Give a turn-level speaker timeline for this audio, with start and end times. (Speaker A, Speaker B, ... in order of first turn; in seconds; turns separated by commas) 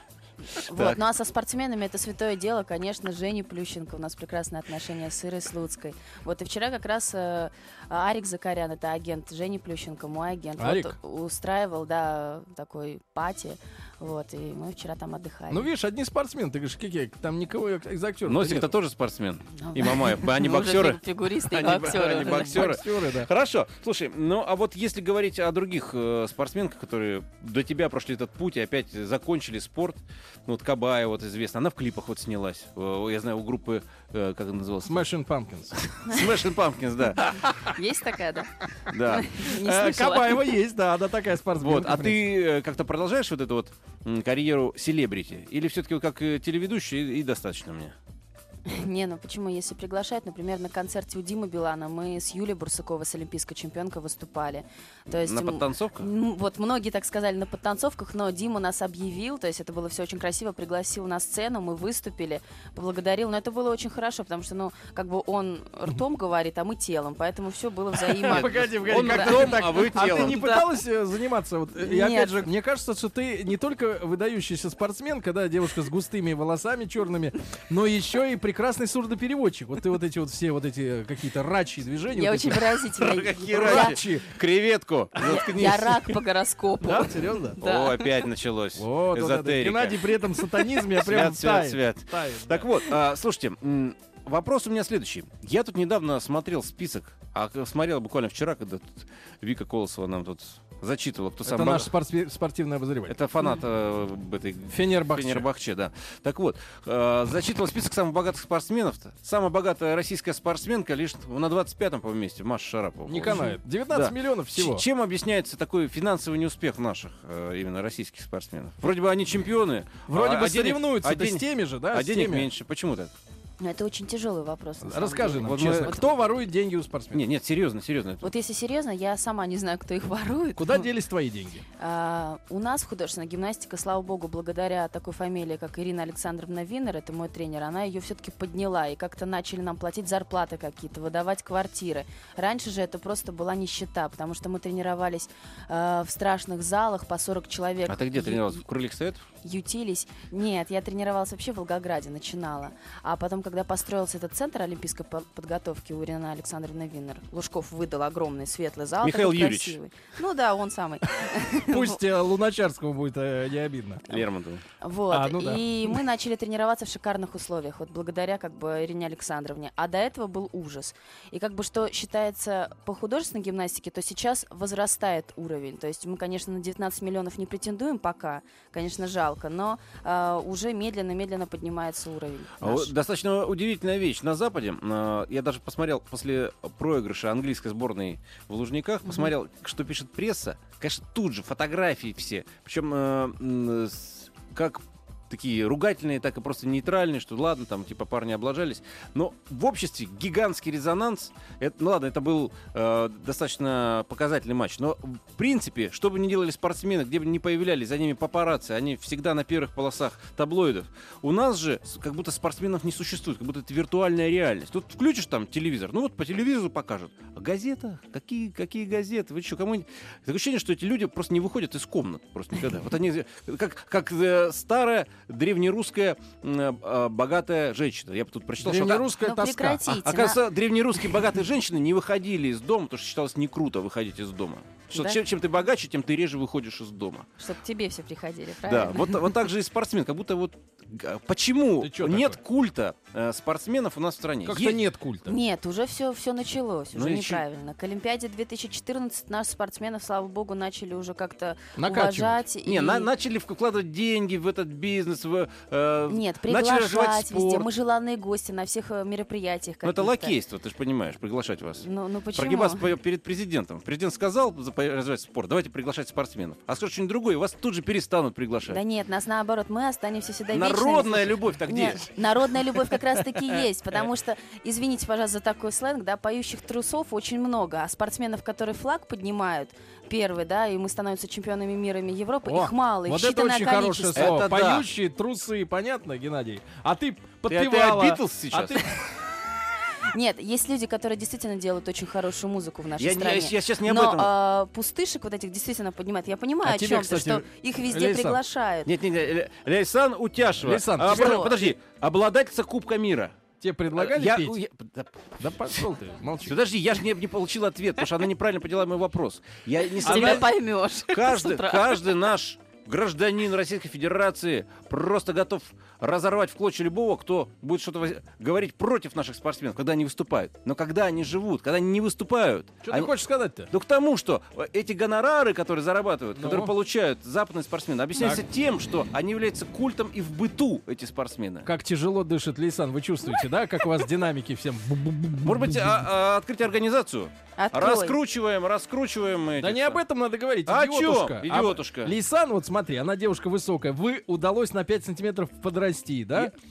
Speaker A: 0.6-15.7, Speaker B: 10.6-10.9, Speaker B: 15.5-18.7, Speaker C: 18.2-35.0, Speaker A: 19.6-22.6, Speaker B: 21.9-23.3, Speaker B: 34.8-35.7, Speaker C: 35.9-37.3, Speaker B: 37.2-37.6, Speaker A: 37.7-38.5, Speaker C: 38.9-39.3, Speaker A: 39.0-40.5, Speaker B: 39.5-42.3, Speaker C: 41.6-47.9, Speaker A: 48.6-70.7, Speaker C: 55.2-56.1, Speaker B: 68.1-82.8, Speaker C: 68.3-70.4, Speaker A: 71.8-72.4, Speaker A: 82.2-84.0, Speaker C: 83.0-86.1, Speaker B: 83.5-84.3, Speaker A: 85.2-88.1, Speaker B: 86.8-87.6, Speaker C: 87.6-90.2, Speaker B: 88.8-92.7, Speaker C: 90.9-101.9, Speaker B: 101.5-103.2, Speaker C: 103.1-123.1, Speaker B: 104.7-105.5, Speaker B: 113.1-114.8, Speaker A: 113.3-113.6, Speaker B: 120.1-122.5, Speaker A: 123.6-126.1, Speaker B: 124.8-127.2, Speaker C: 125.3-126.0, Speaker C: 127.1-128.3, Speaker A: 128.2-130.9, Speaker B: 130.6-131.6, Speaker A: 131.8-148.6, Speaker C: 147.9-149.2, Speaker A: 149.4-162.0, Speaker C: 159.0-159.8, Speaker B: 161.7-164.0, Speaker C: 164.1-164.6, Speaker A: 164.8-182.9, Speaker B: 165.1-166.0, Speaker C: 182.6-229.1, Speaker A: 189.1-189.3, Speaker B: 228.6-229.8, Speaker A: 229.2-230.4, Speaker C: 229.9-237.2, Speaker A: 234.9-235.2, Speaker A: 237.4-239.3, Speaker C: 238.7-244.8, Speaker B: 241.8-242.4, Speaker B: 244.4-245.3, Speaker A: 245.3-253.1, Speaker C: 246.9-247.4, Speaker B: 251.8-252.4, Speaker C: 252.6-257.7, Speaker A: 256.1-260.3, Speaker C: 259.8-268.8, Speaker A: 261.8-262.8, Speaker A: 268.6-284.4, Speaker C: 270.5-272.1, Speaker B: 282.4-288.9, Speaker C: 284.1-284.9, Speaker C: 287.5-288.8, Speaker A: 290.1-298.9, Speaker C: 293.0-294.3, Speaker B: 296.6-298.4, Speaker C: 298.9-303.3, Speaker B: 300.6-301.5, Speaker A: 301.0-301.7, Speaker B: 303.6-304.6, Speaker C: 303.9-305.9, Speaker B: 305.4-306.5, Speaker C: 306.4-323.1, Speaker B: 310.0-310.5, Speaker A: 310.0-312.1, Speaker B: 322.8-323.7, Speaker C: 323.7-331.7, Speaker B: 326.4-326.7, Speaker B: 331.6-336.0, Speaker C: 335.4-340.0, Speaker A: 337.6-338.2, Speaker B: 339.6-346.5, Speaker C: 340.6-342.1